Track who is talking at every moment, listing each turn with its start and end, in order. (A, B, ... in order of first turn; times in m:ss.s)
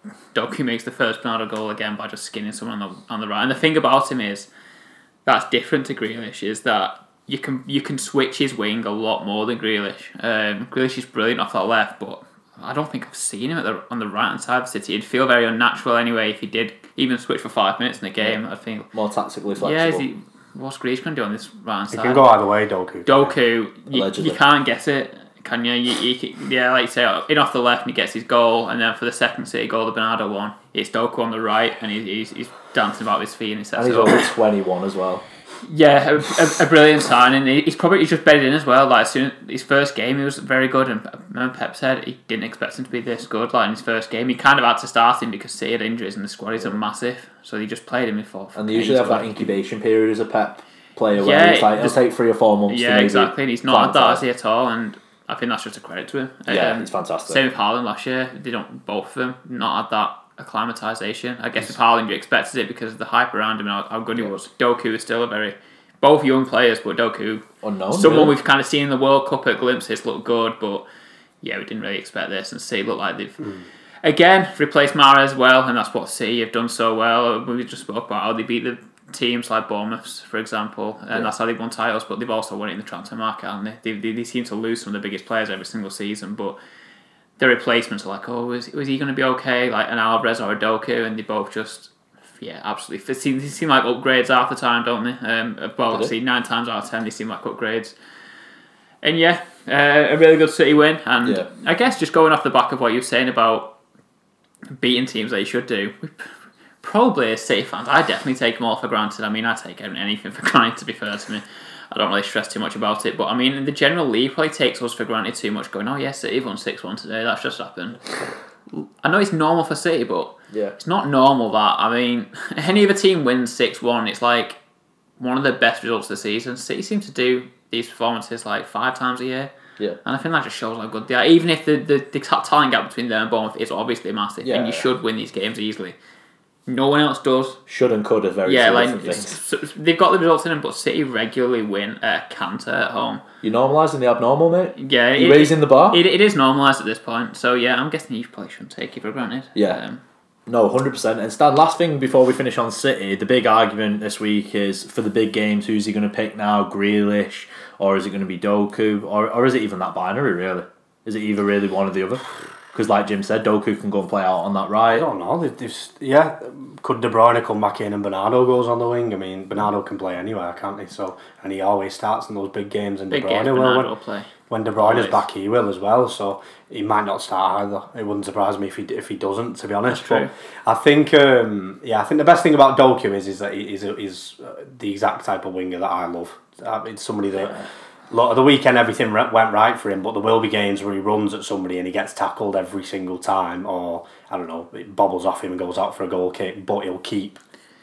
0:00.3-0:04.5 A
0:05.2-0:18.9 A
0:18.9-0:20.0 B
0:19.6-0:22.3 A
0:21.9-0:23.3 C
0:23.0-0:34.3 A
0:23.9-0:24.4 B
0:33.8-0:35.2 B
0:35.6-0:49.5 A
0:48.6-0:54.2 B
0:51.1-0:52.0 A
0:52.7-1:10.8 A
0:56.5-0:57.4 B
1:07.6-1:08.3 B
1:11.4-1:13.4 A
1:14.0-1:26.6 A
1:27.4-1:37.9 A
1:39.0-1:43.7 A
1:41.2-1:41.5 B
1:44.7-1:46.3 A
1:46.8-1:58.0 A
1:58.8-2:04.6 A
2:00.5-2:00.8 B
2:05.2-2:09.5 A
2:10.0-2:16.0 A
2:14.4-2:14.9 B
2:16.7-2:17.6 A
2:17.7-2:19.3 B
2:18.4-2:23.2 A
2:23.4-2:26.0 B
2:24.8-2:30.0 A
2:29.5-2:29.8 B
2:30.5-2:45.1 B
2:44.9-2:53.9 C
2:53.1-2:54.3 A
2:54.5-3:07.5 C
2:54.8-2:55.2 A
2:59.9-3:00.3 A
3:08.1-3:17.4 C